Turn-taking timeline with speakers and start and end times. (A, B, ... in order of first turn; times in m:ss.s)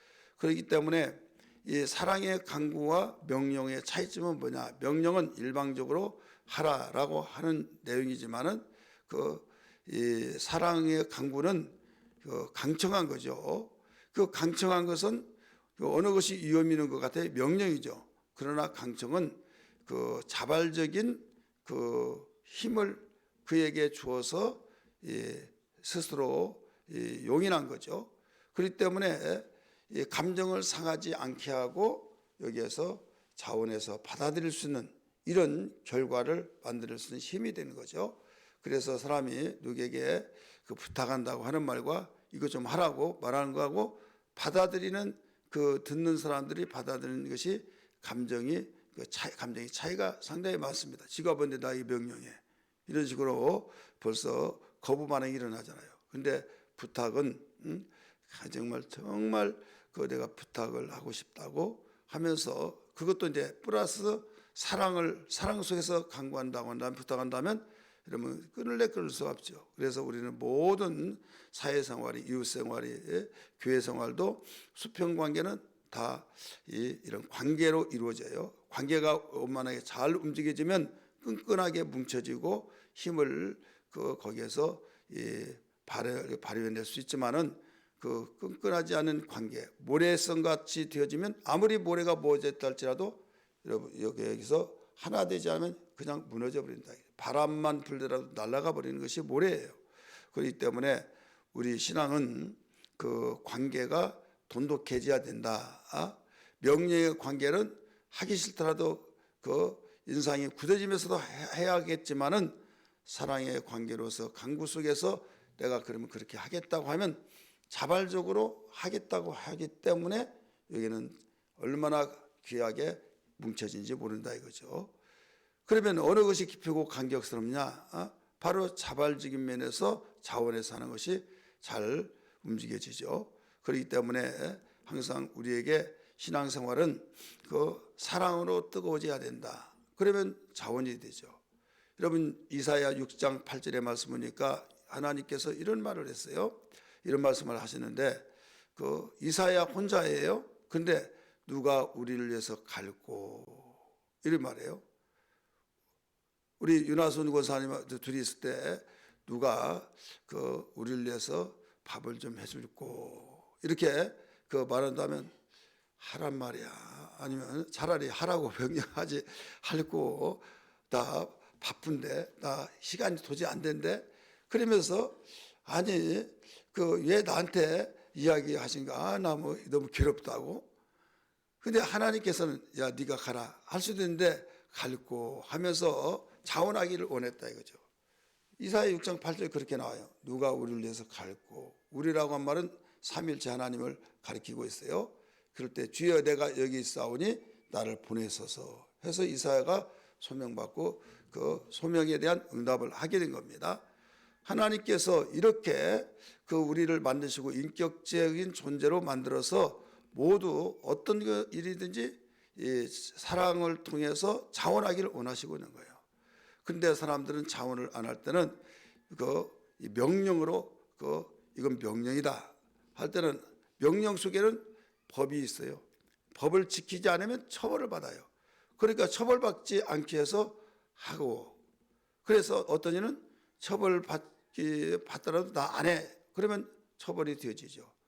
0:00.4-1:39.8 A
1:40.3-2:04.9 A
2:05.7-2:21.4 A
2:22.0-2:34.8 A
2:36.6-2:45.3 A
2:46.0-3:00.7 A
3:01.6-3:07.8 A
3:08.6-3:23.8 A
3:24.4-3:36.0 A
3:36.6-3:48.3 A
3:48.8-3:51.6 A
3:52.2-3:57.9 A